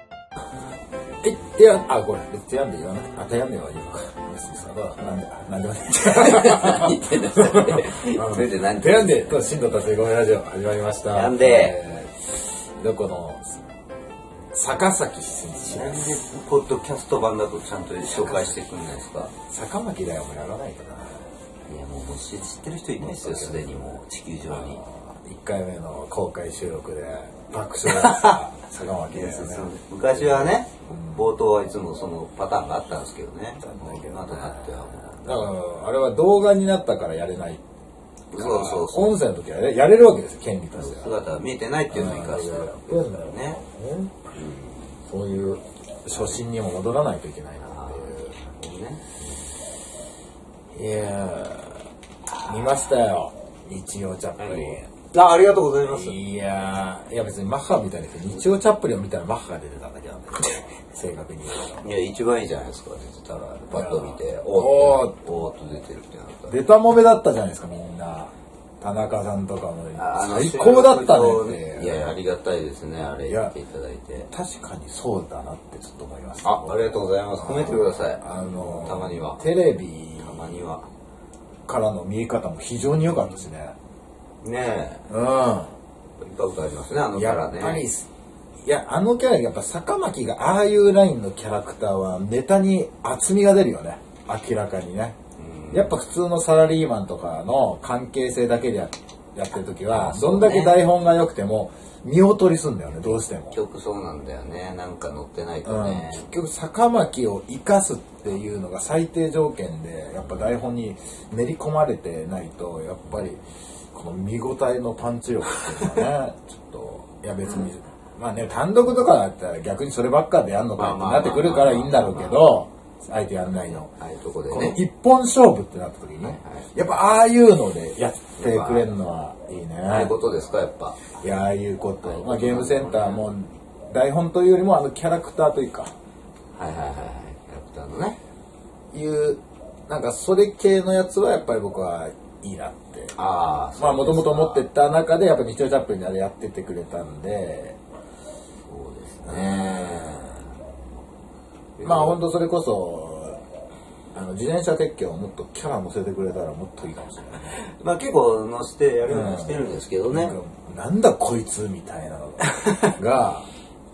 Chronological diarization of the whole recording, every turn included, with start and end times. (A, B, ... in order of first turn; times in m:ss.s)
0:01.2-0:13.5 A
0:06.0-0:09.4 B
0:11.1-0:11.8 B
0:14.5-0:16.0 A
0:15.6-0:19.3 B
0:18.0-0:18.6 A
0:19.3-0:21.3 A
0:21.7-0:24.8 B
0:23.0-0:31.3 A
0:27.9-0:28.4 B
0:29.1-0:35.5 B
0:33.6-0:37.6 A
0:38.3-0:39.2 B
0:38.4-0:41.2 A
0:40.8-0:43.6 B
0:41.9-0:44.1 A
0:44.3-0:45.0 B
0:45.1-0:48.4 A
0:46.1-0:46.4 B
0:47.6-0:49.5 B
0:50.7-0:51.9 A
0:52.4-0:54.9 A
0:52.4-0:52.7 B
0:54.4-0:56.2 B
0:55.8-1:01.8 A
1:01.8-1:06.6 B
1:03.7-1:05.2 A
1:06.5-1:12.2 A
1:09.9-1:14.3 B
1:13.2-1:13.5 A
1:14.3-1:20.6 A
1:16.4-1:19.4 B
1:20.2-1:20.9 B
1:21.6-1:23.7 A
1:24.4-1:25.1 B
1:25.1-1:25.7 A
1:26.2-1:27.8 B
1:27.1-1:28.1 A
1:28.6-1:35.2 A
1:35.4-1:36.0 B
1:35.7-1:43.5 A
1:39.9-1:40.8 B
1:43.5-1:46.3 B
1:45.6-1:53.4 A
1:53.9-2:03.9 A
2:00.8-2:02.5 B
2:03.8-2:04.8 B
2:04.5-2:10.3 A
2:06.2-2:06.7 B
2:08.4-2:08.9 B
2:09.8-2:11.2 B
2:11.2-2:15.9 A
2:12.0-2:13.3 B
2:16.5-2:18.2 B
2:18.9-2:23.1 A
2:23.2-2:24.6 B
2:23.8-2:27.8 A
2:28.7-2:30.6 B
2:29.2-2:30.5 A
2:31.8-2:32.2 B
2:31.8-2:33.4 A
2:34.1-2:37.6 A
2:37.4-2:40.4 B
2:39.1-2:43.5 A